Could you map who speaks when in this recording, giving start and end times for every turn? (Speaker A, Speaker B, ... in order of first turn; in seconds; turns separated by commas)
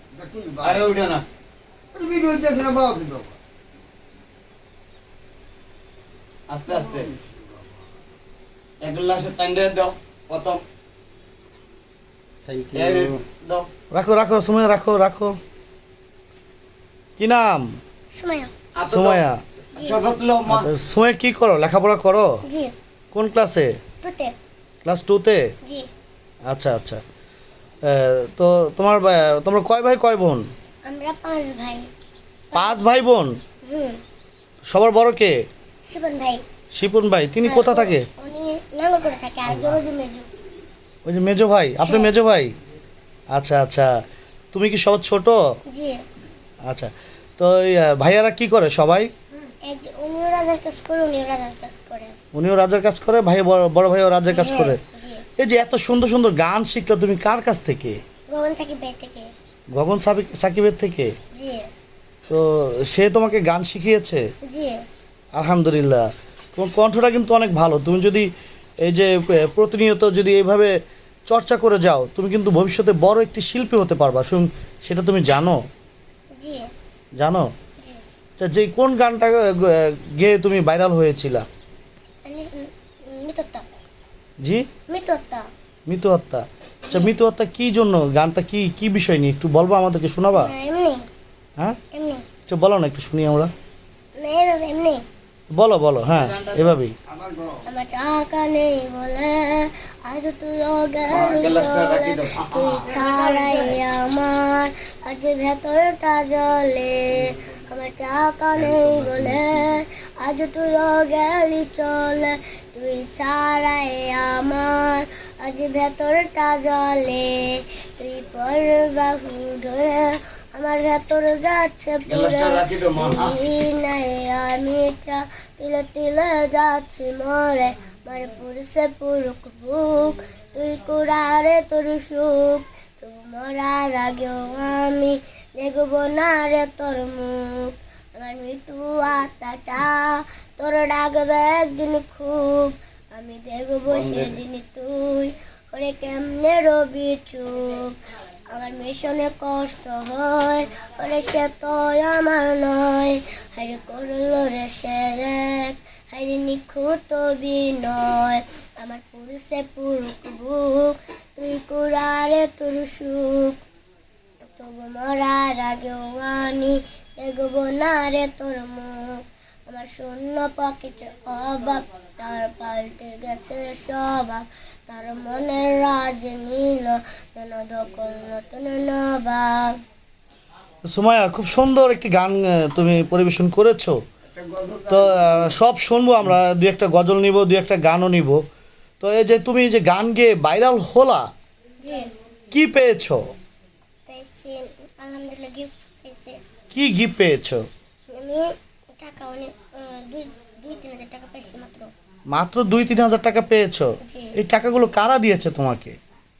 Speaker A: 0.1-0.9, Speaker B: 0.6-1.2, Speaker A: 1.9-3.3, Speaker B: 6.5-7.1, Speaker B: 8.8-10.6, Speaker A: 12.4-13.2, Speaker B: 12.7-13.7, Speaker C: 13.9-15.4, Speaker C: 17.2-17.7, Speaker D: 18.1-18.5, Speaker B: 18.8-20.7, Speaker C: 18.9-19.4, Speaker D: 19.8-20.0, Speaker C: 20.5-22.4, Speaker D: 22.5-22.7, Speaker C: 23.1-23.7, Speaker D: 24.0-24.3, Speaker C: 24.9-25.5, Speaker C: 26.5-27.0, Speaker C: 27.8-30.4, Speaker D: 30.9-31.9, Speaker D: 32.5-32.8, Speaker C: 32.5-33.4, Speaker D: 33.6-34.0, Speaker C: 34.7-35.4, Speaker D: 35.9-36.4, Speaker C: 36.8-38.1, Speaker D: 37.4-40.3, Speaker C: 39.5-39.8, Speaker C: 41.0-42.5, Speaker D: 41.8-42.1, Speaker C: 43.3-43.9, Speaker C: 44.5-45.4, Speaker D: 45.7-46.0, Speaker C: 46.7-49.1, Speaker D: 49.7-52.2, Speaker C: 52.3-54.8, Speaker D: 54.3-55.2, Speaker C: 55.4-58.0, Speaker D: 58.3-59.3, Speaker C: 59.7-61.1, Speaker D: 61.3-61.7, Speaker C: 62.3-64.2, Speaker D: 64.5-64.8, Speaker C: 65.3-68.3, Speaker C: 68.8-70.7, Speaker C: 71.3-75.6, Speaker D: 76.4-76.7, Speaker C: 77.2-77.5, Speaker C: 78.4-81.5, Speaker D: 82.2-83.7, Speaker D: 84.9-85.5, Speaker C: 85.9-90.5, Speaker D: 90.3-91.0, Speaker D: 91.9-92.2, Speaker C: 92.5-93.5, Speaker D: 94.2-95.0, Speaker C: 95.5-97.0, Speaker B: 96.1-96.7, Speaker D: 97.7-148.0, Speaker B: 101.1-103.0, Speaker B: 122.1-123.4, Speaker B: 143.9-144.4, Speaker D: 148.5-163.6, Speaker D: 164.4-179.8, Speaker C: 180.9-184.0, Speaker B: 184.4-185.0, Speaker C: 184.9-188.4, Speaker C: 189.0-191.3, Speaker D: 191.8-192.1, Speaker C: 192.5-193.2, Speaker D: 194.1-196.4, Speaker C: 196.7-197.7, Speaker D: 198.1-201.9, Speaker C: 202.3-206.0, Speaker D: 204.1-204.3